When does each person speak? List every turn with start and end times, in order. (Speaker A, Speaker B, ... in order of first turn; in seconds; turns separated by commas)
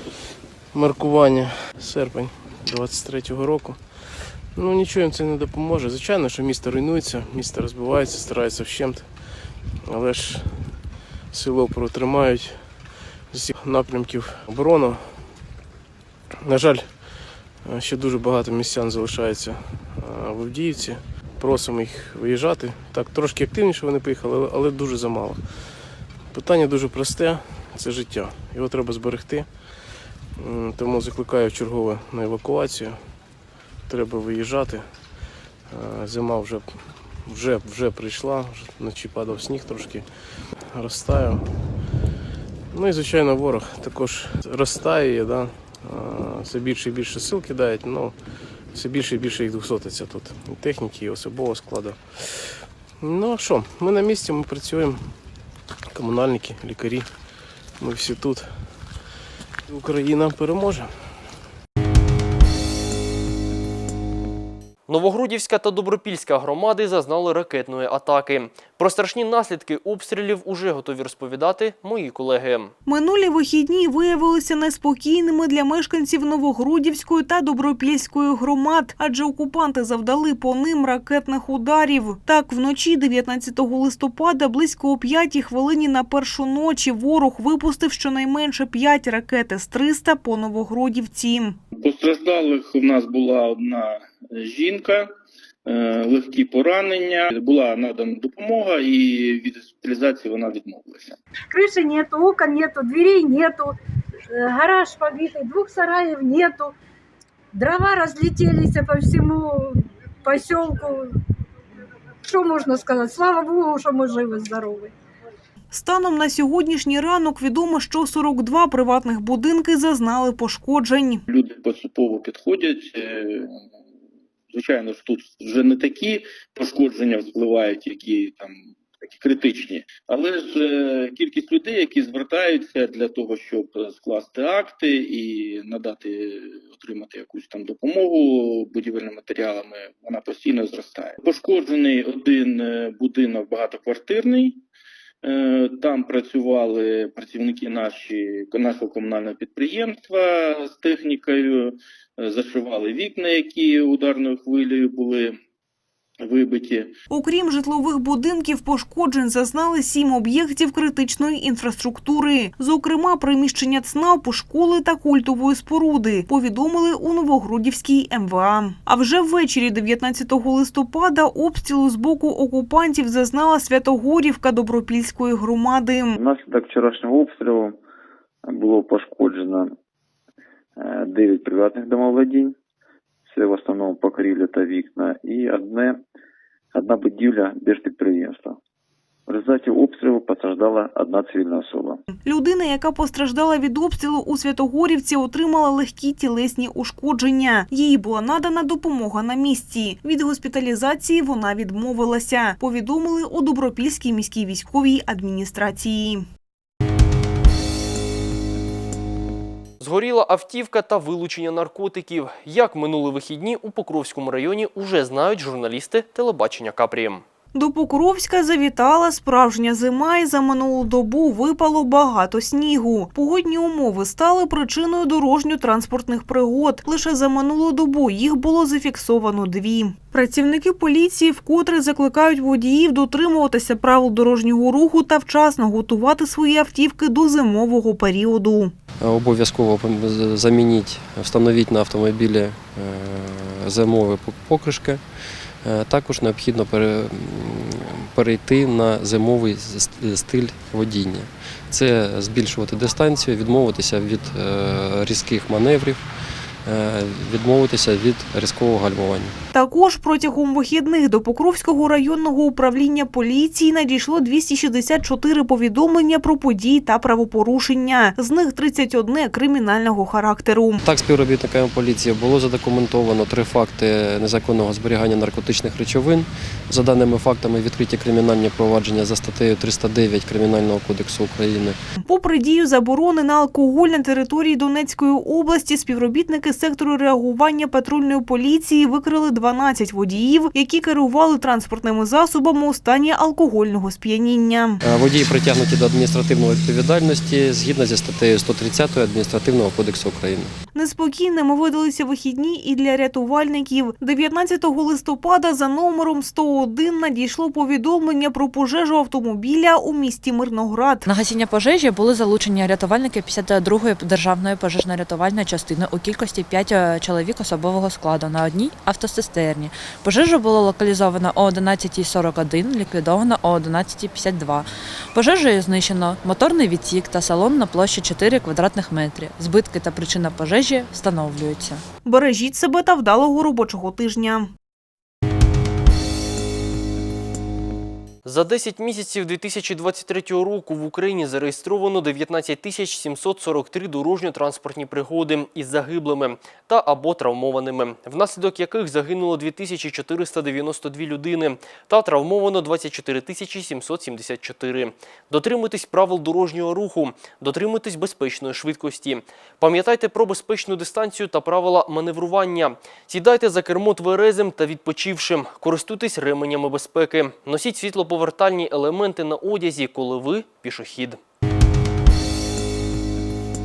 Speaker A: 0.7-9.2, Speaker A: 9.9-10.7, Speaker A: 11.3-12.7, Speaker A: 13.3-15.2, Speaker A: 16.4-17.1, Speaker A: 17.6-25.4, Speaker A: 26.3-29.5, Speaker A: 30.4-33.0, Speaker A: 33.9-34.9, Speaker A: 35.7-40.1, Speaker A: 40.6-41.4, Speaker A: 42.7-48.1, Speaker A: 48.7-55.1, Speaker A: 55.9-57.1, Speaker A: 57.8-58.8, Speaker A: 59.7-61.1, Speaker B: 64.9-72.7, Speaker C: 72.9-91.6, Speaker D: 91.7-95.1, Speaker D: 95.7-101.2, Speaker E: 101.5-103.8, Speaker E: 104.3-106.7, Speaker E: 107.5-111.2, Speaker E: 112.2-115.0, Speaker C: 115.7-121.2, Speaker D: 121.3-123.6, Speaker D: 124.5-144.6, Speaker D: 145.2-155.4, Speaker D: 156.2-157.0, Speaker C: 157.1-176.2, Speaker F: 176.2-177.8, Speaker F: 178.4-179.7, Speaker F: 180.8-182.6, Speaker F: 183.3-186.0, Speaker F: 186.7-188.6, Speaker F: 189.3-192.0, Speaker C: 192.2-206.3, Speaker B: 209.8-217.2, Speaker C: 217.5-238.7, Speaker G: 239.0-259.4, Speaker C: 259.5-270.8, Speaker G: 270.8-281.8, Speaker C: 282.0-294.8, Speaker G: 294.8-300.6, Speaker C: 300.7-311.1, Speaker H: 311.1-331.8, Speaker C: 332.1-334.5, Speaker B: 338.2-371.2